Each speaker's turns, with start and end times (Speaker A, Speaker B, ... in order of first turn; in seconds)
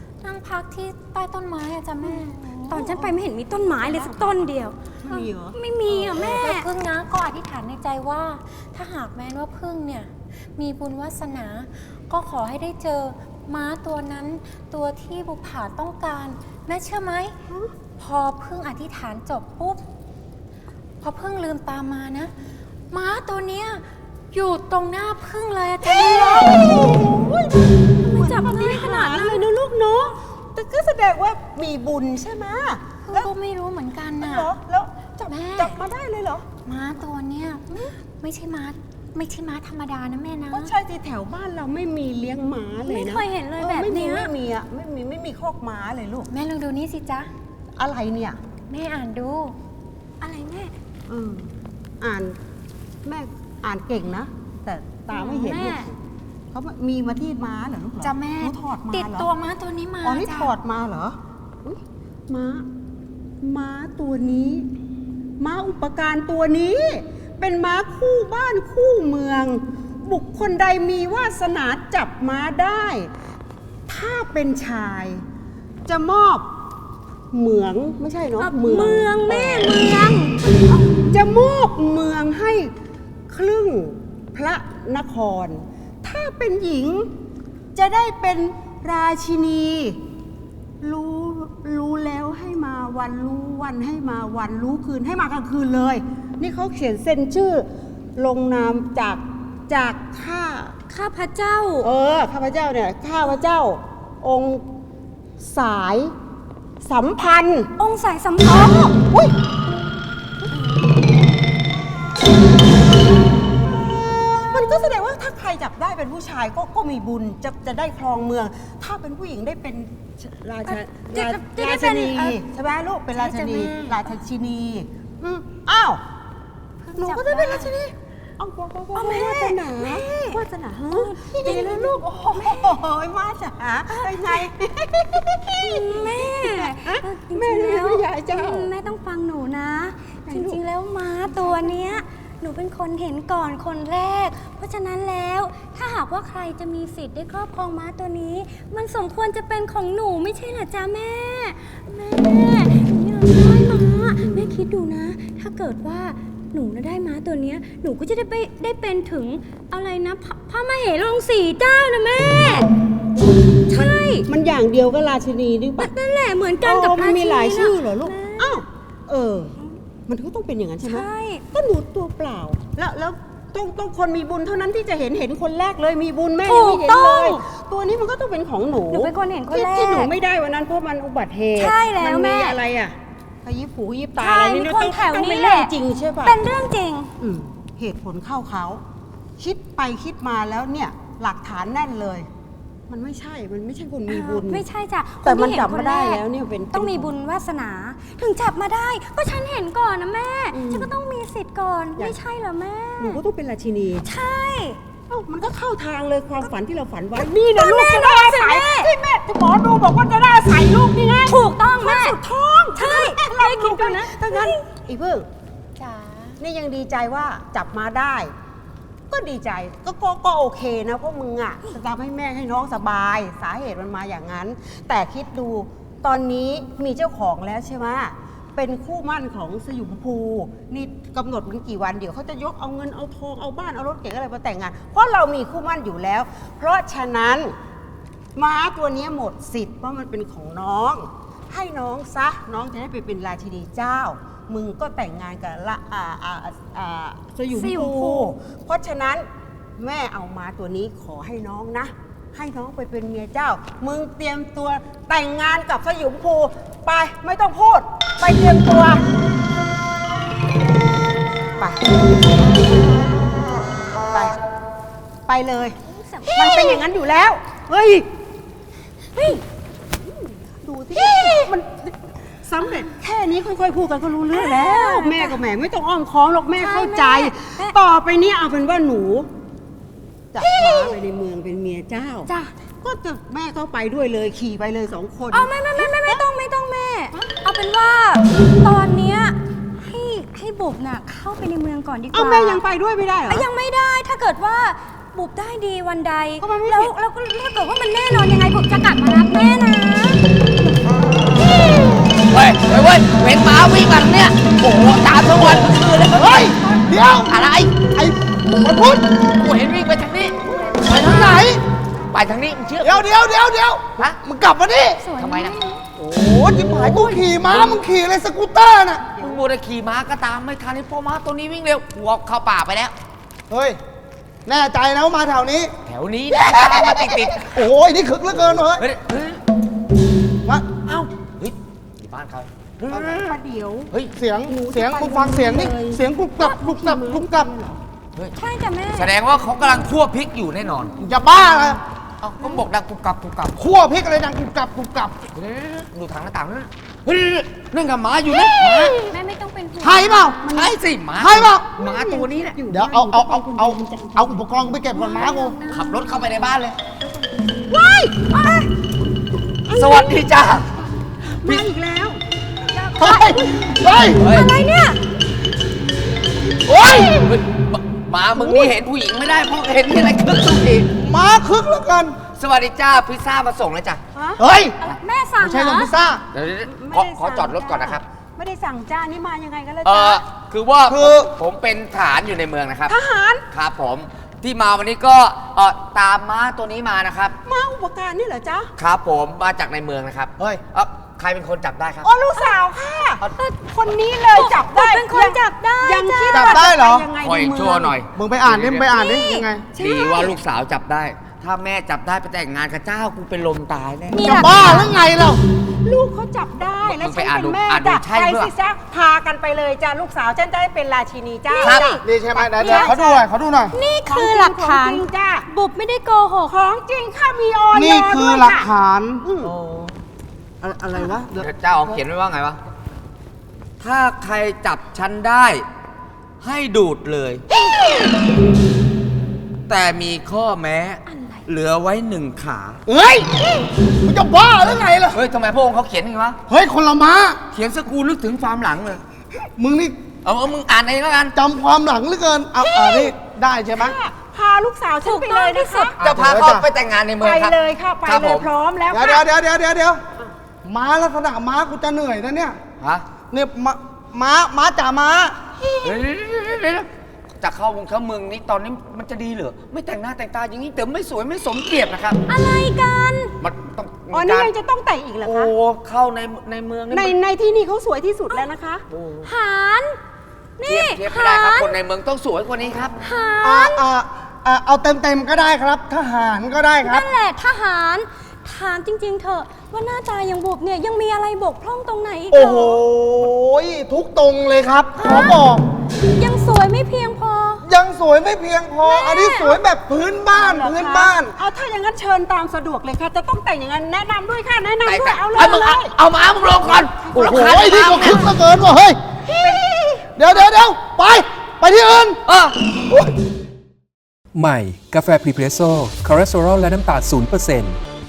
Speaker A: 0.2-2.8, 6.2-17.3, 18.0-19.8, 21.0-22.3, 22.9-26.6, 33.0-34.5, 35.2-35.8, 36.6-40.7, 46.3-47.3, 48.7-49.5, 58.0-60.5, 123.1-124.1, 126.8-127.7, 215.8-216.4, 315.0-315.8
Speaker B: 2.0-4.5, 5.0-6.5, 25.8-33.3, 34.2-35.0, 35.5-36.5, 40.5-46.3, 47.8-48.4, 51.1-52.4, 53.0-56.0, 56.5-59.3, 60.0-62.7, 63.4-64.7, 65.4-73.1, 73.9-75.2, 75.8-76.5, 77.3-79.8, 81.1-82.7, 83.3-87.1, 87.7-90.0, 90.8-100.8, 101.8-104.6, 105.4-106.1, 106.8-107.7, 108.4-109.3, 114.5-126.0, 126.9-138.7, 140.3-140.6, 141.2-141.9, 154.2-154.6, 164.3-165.9, 166.6-169.6, 170.1-186.4, 187.2-188.8, 189.4-192.3, 192.9-194.6, 195.2-197.1, 200.5-200.9, 203.0-204.1, 205.1-215.3, 216.4-218.3, 219.1-237.5, 238.3-249.3, 249.8-259.0, 261.6-261.9, 264.1-264.4, 265.3-265.8, 266.3-268.1, 270.0-271.9, 272.4-279.3, 280.3-282.3, 282.8-286.2, 292.1-293.5, 296.4-296.9, 310.6-311.2, 319.2-319.4, 332.9-333.9, 334.5-337.8, 341.4-341.7, 350.4-350.8, 351.7-355.2, 357.0-358.7, 359.7-360.5, 361.4-362.2, 368.4-368.7, 374.1-374.4, 376.6-380.3, 382.9-383.4, 387.4-388.7, 392.0-398.0, 399.7-400.4, 404.4-404.9, 405.8-413.2, 414.0-415.4, 416.5-418.7, 419.2-419.5, 442.6-443.1, 443.7-446.0, 447.2-449.2, 464.1-465.5, 466.9-468.8, 490.3-495.9, 496.6-498.4, 499.4-499.6
Speaker C: 2.7-4.7, 5.5-6.7, 28.1-29.4, 42.8-44.3, 50.2-50.7, 55.1-55.9, 78.4-81.1, 100.9-101.9, 107.8-108.8, 110.5-110.8, 120.6-122.4, 128.9-132.8, 133.9-134.4, 135.6-162.7, 163.7-164.3, 165.8-168.6, 170.8-171.4, 176.4-177.4, 178.9-180.1, 181.5-182.6, 184.2-185.7, 186.2-187.1, 194.1-203.2, 204.0-204.8, 207.5-208.9, 211.3-212.2, 212.7-214.6, 247.5-248.3, 265.9-266.9, 269.1-269.4, 271.0-271.5, 274.3-275.4, 276.6-277.8, 280.4-280.9, 282.2-282.5, 285.3-292.6, 293.3-300.2, 338.3-339.9, 349.0-350.5, 354.9-356.1, 362.7-365.0, 374.9-375.9, 394.3-396.5, 398.9-399.4, 404.1-404.9, 411.5-412.0, 412.6-412.9, 413.7-416.6, 431.1-431.5, 445.0-445.9, 462.3-463.3, 469.2-470.0, 470.6-471.8, 473.0-473.9, 476.8-482.8, 485.0-485.4, 486.1-487.6, 488.8-489.6
Speaker D: 302.3-306.4, 307.3-307.9, 309.3-310.4, 310.9-311.4, 312.1-313.1, 315.1-315.6, 316.5-317.8, 319.2-322.9, 325.8-327.5, 328.8-329.4, 330.8-333.3, 338.9-340.9, 342.2-343.5, 345.3-349.0, 350.5-352.6, 355.6-356.8, 359.7-360.7, 364.2-364.5, 366.7-370.9, 372.2-374.0, 376.3-378.0, 379.8-382.9, 383.5-387.4, 388.8-392.1, 397.1-398.9, 399.7-404.2, 406.8-408.5, 411.6-412.0, 419.4-419.9, 421.3-422.6, 423.8-425.6, 426.4-427.4, 429.7-432.8, 435.1-436.4, 437.5-439.0, 440.2-441.4, 446.0-448.5, 452.8-453.1, 455.8-456.9, 457.4-462.2, 463.4-464.5, 465.2-467.1, 468.9-469.3, 470.6-473.0, 494.8-498.3, 502.2-502.6
Speaker E: 305.2-307.3, 307.8-309.1, 310.8-311.6, 312.8-315.0, 316.0-319.1, 323.5-323.8, 324.4-325.7, 326.3-328.8, 330.4-330.7, 334.1-337.5, 341.0-341.8, 343.6-345.2, 349.8-350.4, 351.2-351.8, 352.7-355.6, 363.0-364.2, 371.0-372.2, 374.4-374.8, 375.4-376.2, 380.9-381.3, 396.3-397.1, 398.1-399.7, 404.2-405.4, 412.0-413.7, 417.7-419.2, 420.6-422.0, 432.9-433.3, 434.0-435.2, 436.5-437.4, 439.6-440.1, 441.4-443.9, 446.0-446.7, 448.9-450.0, 450.6-452.6, 453.3-455.4, 473.4-477.1, 482.3-485.6, 487.6-491.3, 497.2-499.0, 500.2-502.2
Speaker F: 504.3-507.8